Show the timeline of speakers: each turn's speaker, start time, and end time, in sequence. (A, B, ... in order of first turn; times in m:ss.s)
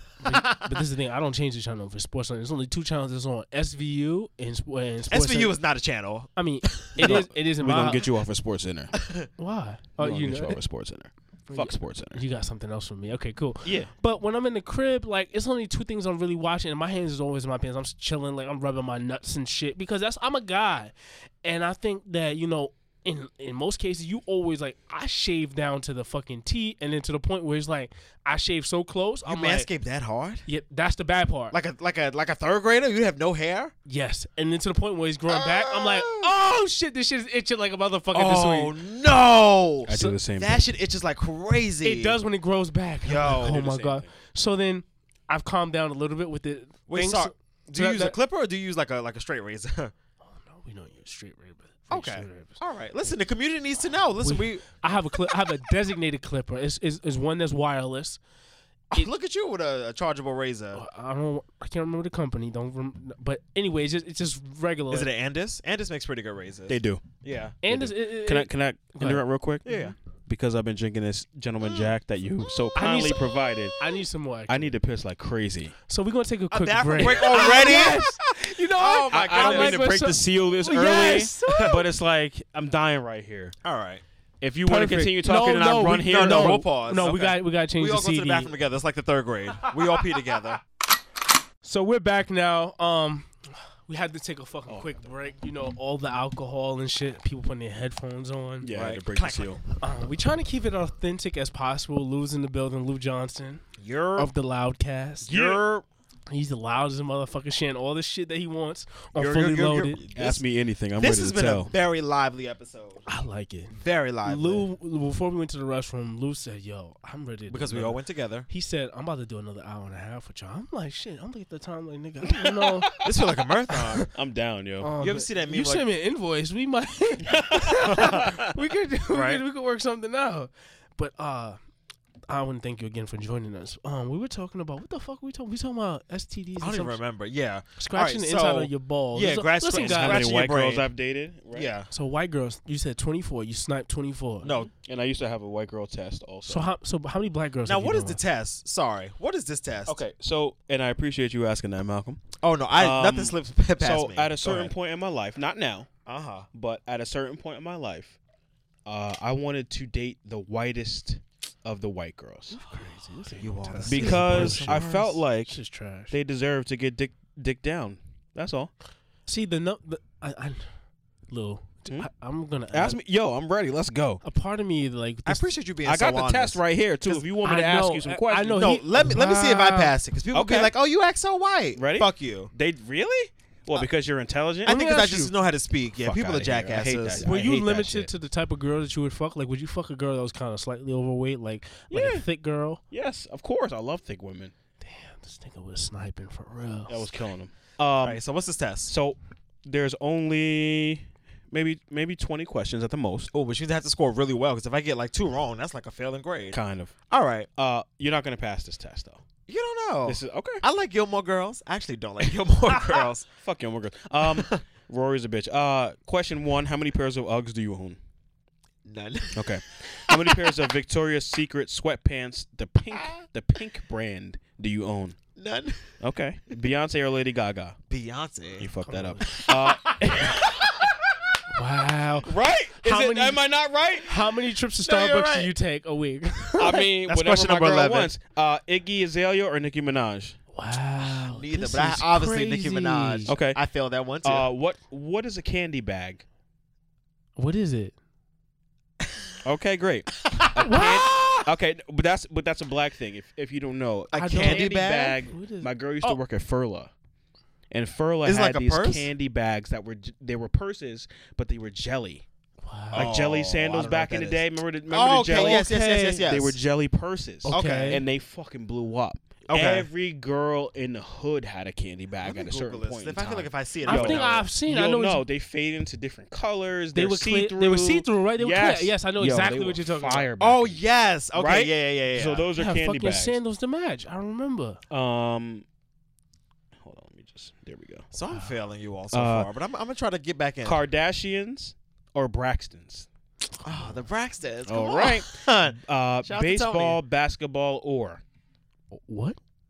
0:00.2-0:05.6 A
0:00.2-0:00.8 B
0:05.1-0:07.2 B
0:06.4-0:08.0 A
0:07.0-0:09.0 C
0:09.0-0:09.3 B
0:09.4-0:10.6 A
0:10.0-0:12.2 C
0:11.5-0:29.7 A
0:13.6-0:13.9 C
0:29.2-0:30.4 B
0:30.5-0:31.6 A
0:31.5-0:33.7 B
0:33.9-0:38.7 A
0:35.3-0:36.3 B
0:38.1-0:42.2 B
0:39.9-0:40.6 C
0:41.8-0:48.2 A
0:43.0-0:43.6 B
0:43.4-0:44.1 C
0:46.9-0:49.9 B
0:50.2-0:52.6 A
0:51.9-0:54.6 B
0:54.2-0:58.2 A
0:58.9-1:00.8 B
1:00.7-1:05.1 A
1:04.9-1:07.5 B
1:06.7-1:07.0 C
1:07.6-1:09.2 A
1:07.6-1:13.8 C
1:09.6-1:10.0 B
1:11.6-1:11.9 B
1:12.8-1:13.2 A
1:13.8-1:14.7 A
1:14.5-1:15.7 C
1:15.9-1:21.8 A
1:16.5-1:18.1 B
1:17.0-1:23.6 C
1:18.8-1:19.9 B
1:21.4-1:21.8 B
1:23.6-1:24.0 B
1:24.4-1:26.6 C
1:24.6-1:28.5 A
1:26.0-1:30.6 B
1:31.6-1:33.3 A
1:33.9-1:38.7 A
1:34.7-1:34.9 C
1:38.6-1:39.6 C
1:38.7-1:39.6 B
1:39.8-1:43.6 A
1:43.8-1:44.2 B
1:43.8-1:44.2 C
1:44.2-1:45.3 A
1:45.3-1:45.8 C
1:45.3-1:45.6 B
1:46.3-1:50.0 A
1:49.1-1:50.4 B
1:50.1-1:51.7 C
1:51.0-1:53.0 B
1:53.0-2:03.0 A
1:53.7-1:54.6 B
1:57.5-1:58.5 B
2:02.3-2:03.1 C
2:03.0-2:04.1 B
2:04.1-2:04.9 C
2:04.8-2:11.6 A
2:05.0-2:05.8 B
2:07.3-2:08.4 C
2:07.8-2:08.3 B
2:09.1-2:09.4 B
2:12.3-2:17.0 A
2:16.6-2:20.9 B
2:17.8-2:20.2 A
2:19.7-2:21.7 C
2:21.5-2:21.9 B
2:21.9-2:24.5 A
2:24.4-2:24.7 B
2:24.8-2:26.7 C
2:26.5-2:28.2 A
2:27.6-2:30.0 B
2:29.9-2:32.2 C
2:32.4-2:34.7 B
2:32.8-2:35.9 C
2:36.0-2:36.4 B
2:36.5-2:38.2 C
2:38.8-2:42.6 C
2:42.5-2:46.1 A
2:43.2-2:45.0 B
2:43.9-2:45.6 C
2:46.1-2:48.7 C
2:49.3-2:50.7 A
2:51.3-2:53.0 A
2:52.7-2:54.2 C
2:54.2-2:55.5 A
2:55.2-2:56.6 B
2:55.8-2:58.7 C
2:57.1-2:59.9 A
2:58.5-3:02.5 B
3:00.3-3:00.7 C
3:01.8-3:04.8 C
3:04.6-3:07.3 B
3:04.6-3:05.3 A
3:06.0-3:08.1 C
3:07.2-3:12.8 A
3:11.9-3:12.2 C
3:12.9-3:14.5 C
3:14.8-3:17.1 A
3:16.9-3:18.2 C
3:18.0-3:18.9 B
3:18.9-3:23.3 C
3:23.3-3:26.6 B
3:26.5-3:27.0 C
3:27.1-3:27.5 B
3:27.6-3:29.2 C
3:29.5-3:33.3 B
3:30.0-3:30.6 C
3:32.7-3:38.0 C
3:38.8-3:40.6 B
3:39.3-3:45.2 C
3:45.4-3:45.9 B
3:46.0-3:47.8 C
3:47.9-3:48.7 B
3:48.6-3:50.9 C
3:48.8-3:49.5 A
3:49.4-3:50.8 B
3:51.5-3:53.4 A
3:52.2-3:54.1 C
3:54.0-3:56.8 A
3:54.8-3:55.5 B
3:56.6-4:00.4 C
3:57.0-3:58.1 B
4:00.5-4:03.3 A
4:01.0-4:04.5 B
4:03.3-4:03.6 C
4:04.2-4:06.2 C
4:07.4-4:07.9 A
4:09.4-4:16.9 C
4:10.3-4:11.5 B
4:10.6-4:11.0 A
4:14.1-4:15.2 B
4:14.1-4:16.2 A
4:17.7-4:22.2 C
4:18.2-4:19.1 B
4:22.6-4:23.1 A
4:22.9-4:26.6 B
4:22.9-4:40.8 C
4:25.3-4:26.3 A
4:27.4-4:28.0 A
4:27.5-4:28.0 B
4:29.5-4:29.9 B
4:32.2-4:34.5 B
4:33.8-4:35.2 A
4:36.9-4:40.3 A
4:40.4-4:42.5 B
4:41.3-4:43.4 C
4:42.6-4:44.8 A
4:44.9-4:45.6 C
4:46.8-4:48.1 C
4:48.1-4:50.8 B
4:49.1-4:49.5 C
4:50.6-4:53.1 C
4:53.6-4:57.0 B
4:53.6-4:53.9 A
4:54.7-4:58.2 C
4:58.9-4:59.4 A